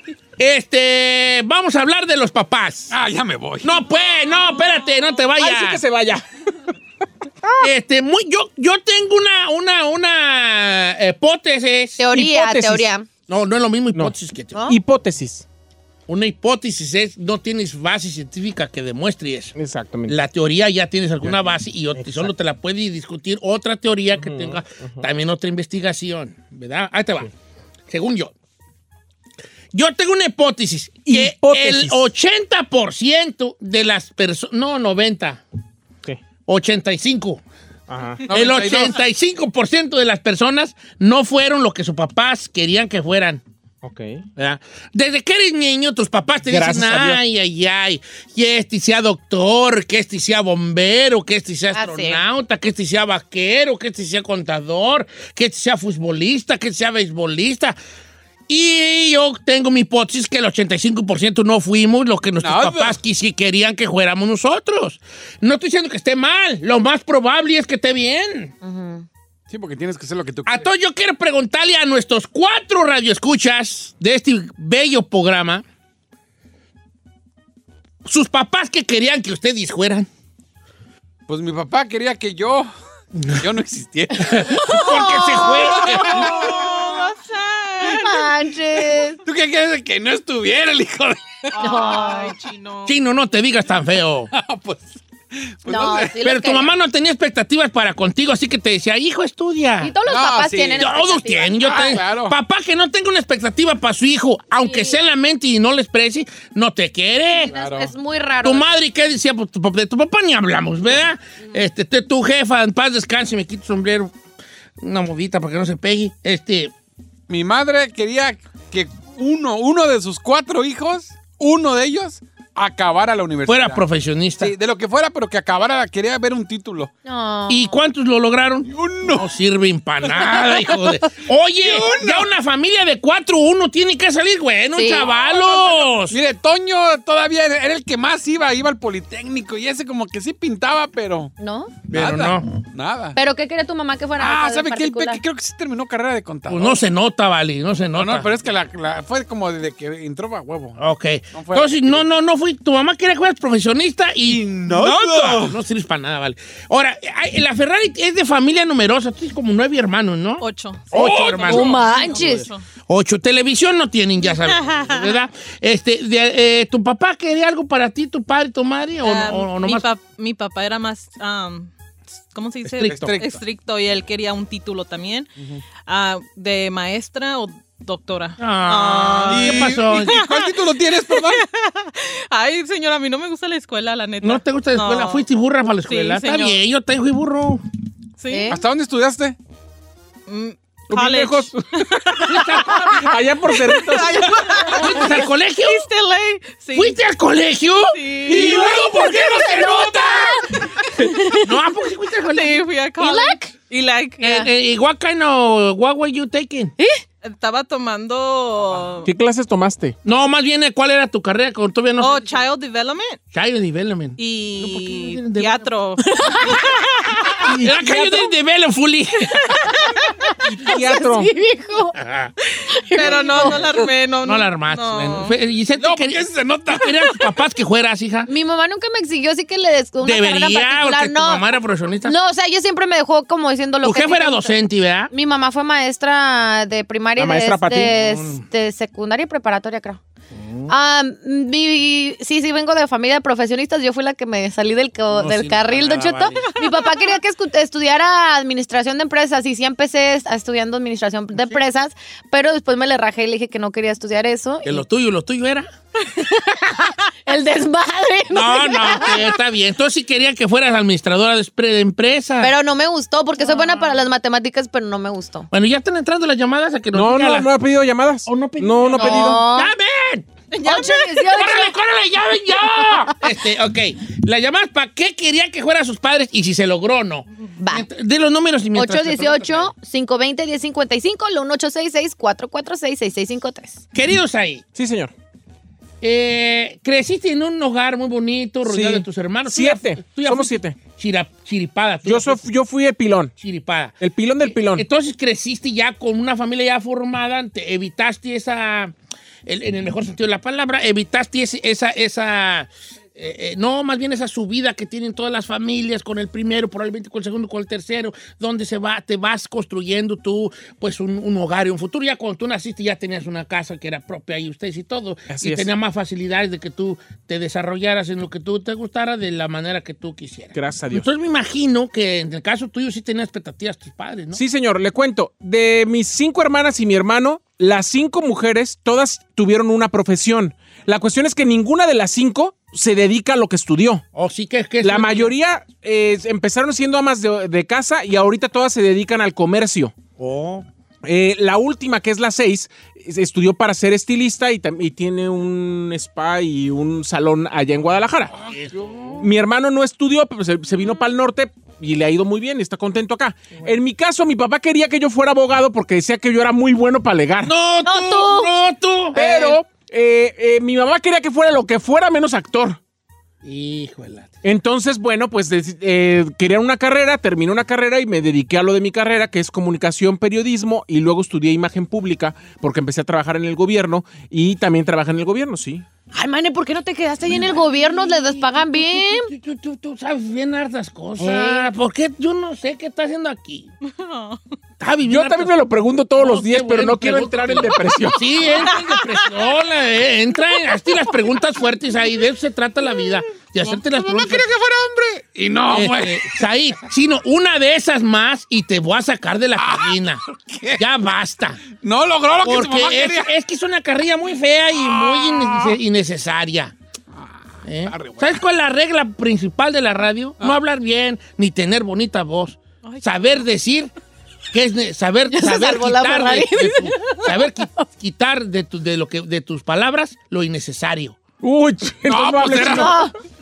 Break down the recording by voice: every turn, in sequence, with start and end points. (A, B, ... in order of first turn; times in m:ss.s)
0:00.4-0:02.9 A
0:02.9-0:03.7 B
0:03.6-0:05.8 A
0:05.4-0:06.2 C
0:07.6-0:12.0 A
0:12.0-0:13.1 D
0:12.1-0:12.9 C
0:13.3-0:14.6 A
0:14.7-0:15.4 C
0:16.1-0:19.5 A
0:19.6-0:20.1 C
0:20.1-0:27.3 A
0:21.9-0:22.3 C
0:24.2-0:25.0 C
0:27.9-0:28.3 A
0:29.7-0:35.4 A
0:31.0-0:32.0 C
0:36.4-0:37.4 A
0:37.9-0:38.2 C
0:38.3-0:39.0 B
0:38.3-0:43.4 A
0:43.8-0:44.2 C
0:44.4-0:57.8 A
0:46.5-0:47.2 C
0:51.7-0:52.2 D
0:58.5-1:08.5 A
1:02.4-1:03.0 B
1:08.6-1:09.0 D
1:09.5-1:10.7 B
1:10.4-1:15.6 A
1:18.0-1:20.1 A
1:21.3-1:22.7 B
1:23.2-1:23.4 A
1:23.4-1:24.7 B
1:24.2-1:26.5 A
1:24.7-1:26.5 D
1:25.7-1:26.6 B
1:26.1-1:28.3 E
1:27.9-1:29.2 D
1:29.2-1:31.6 B
1:31.5-1:33.0 E
1:31.6-1:32.4 D
1:32.8-1:34.3 A
1:34.3-1:35.0 B
1:35.6-1:36.2 B
1:35.6-1:36.7 D
1:36.2-1:39.9 A
1:39.8-1:41.7 D
1:40.0-1:40.9 B
1:40.8-1:47.5 A
1:41.6-1:42.4 B
1:44.6-1:45.0 D
1:47.3-1:48.7 D
1:47.4-1:47.9 B
1:48.4-1:54.1 A
1:54.8-1:56.7 A
1:57.3-2:03.8 B
2:03.5-2:04.5 A
2:04.4-2:06.9 B
2:07.0-2:07.8 D
2:07.5-2:16.2 A
2:08.7-2:09.2 B
2:10.0-2:10.7 B
2:11.5-2:12.3 B
2:14.7-2:15.8 D
2:16.1-2:21.3 B
2:21.4-2:21.9 D
2:21.9-2:23.2 B
2:21.9-2:22.4 A
2:23.1-2:25.2 D
2:24.2-2:26.8 B
2:26.5-2:28.3 A
2:28.0-2:30.8 B
2:30.8-2:42.3 A
2:31.3-2:32.0 B
2:34.2-2:35.6 B
2:40.4-2:42.6 E
2:40.9-2:41.8 B
2:41.4-2:42.5 D
2:42.9-2:49.8 A
2:44.4-2:45.1 E
2:49.0-2:55.3 E
2:52.7-2:53.4 B
2:52.8-2:53.2 A
2:55.8-3:05.3 E
2:58.4-3:00.2 A
2:59.3-3:01.4 B
3:04.2-3:07.6 A
3:05.8-3:06.6 E
3:08.2-3:08.5 E
3:08.3-3:08.6 D
3:08.5-3:09.4 B
3:10.3-3:13.0 E
3:10.9-3:11.6 C
3:12.2-3:13.1 A
3:12.9-3:14.1 C
3:13.7-3:17.0 E
3:14.6-3:15.8 A
3:16.7-3:20.4 A
3:17.9-3:18.6 E
3:18.2-3:20.2 B
3:18.5-3:19.9 D
3:20.8-3:21.2 E
3:21.3-3:22.6 A
3:22.3-3:24.3 E
3:23.0-3:23.5 D
3:24.2-3:26.7 A
3:27.2-3:29.1 E
3:29.0-3:29.9 C
3:30.0-3:32.4 A
3:32.0-3:33.2 E
3:33.3-3:35.7 A
3:34.2-3:36.8 E
3:36.5-3:39.7 A
3:37.4-3:38.3 C
3:40.3-3:42.0 D
3:40.4-3:41.3 C
3:42.0-3:42.3 A
3:42.7-3:43.8 D
3:42.9-3:45.3 E
3:43.0-3:43.6 A
3:44.2-3:48.3 A
3:45.7-3:46.9 B
3:48.3-3:54.6 D
3:50.0-3:52.2 A
3:53.8-3:55.1 A
3:55.1-4:00.0 D
3:57.2-3:57.9 C
3:57.8-3:58.4 A
4:00.3-4:00.7 A
4:00.7-4:14.8 D
4:05.1-4:06.5 A
4:14.6-4:15.7 A
4:16.1-4:19.3 D
4:18.3-4:22.5 A
4:22.4-4:25.5 D
4:23.5-4:23.9 A
4:25.5-4:27.5 A
4:26.9-4:29.4 C
4:28.2-4:30.2 A
4:29.0-4:29.7 D
4:30.5-4:31.6 E
4:30.6-4:31.7 D
4:31.2-4:39.7 A
4:32.6-4:33.1 D
4:37.6-4:37.9 D
4:38.7-4:43.8 D
4:43.9-4:44.6 A
4:44.7-4:45.1 C
4:46.0-4:52.4 A
4:48.6-4:50.8 C
4:52.0-4:53.3 C
4:53.4-4:58.9 A
4:54.0-4:54.8 C
4:59.4-5:24.4 A
5:15.3-5:15.7 C
5:20.5-5:21.0 C
5:24.3-5:34.0 C
5:34.1-5:35.3 A
5:34.8-5:39.9 C
5:40.2-5:40.6 A
5:41.0-5:48.3 C
5:48.4-5:49.3 A
5:48.4-5:49.2 B
5:49.2-5:57.5 C
5:57.4-5:59.5 A
5:57.8-5:58.5 D
5:59.1-6:02.8 C
6:03.4-6:04.4 A
6:04.4-6:15.8 C
6:16.1-6:19.3 D
6:17.2-6:23.7 A
6:21.2-6:21.7 D
6:23.8-6:24.4 E
6:24.8-6:25.6 A
6:25.1-6:28.2 C
6:26.2-6:34.5 A
6:28.9-6:29.3 E
6:33.6-6:36.4 B
6:35.7-6:40.2 A
6:39.6-6:40.8 B
6:40.8-6:41.6 A
6:41.6-6:43.3 B
6:42.4-6:46.7 A
6:44.7-6:45.8 B
6:47.1-6:48.4 B
6:47.6-6:53.9 A
6:52.8-6:53.3 E
6:54.5-7:01.2 A
6:55.3-6:57.2 D
7:01.4-7:02.9 C
7:02.1-7:03.0 B
7:02.7-7:03.1 D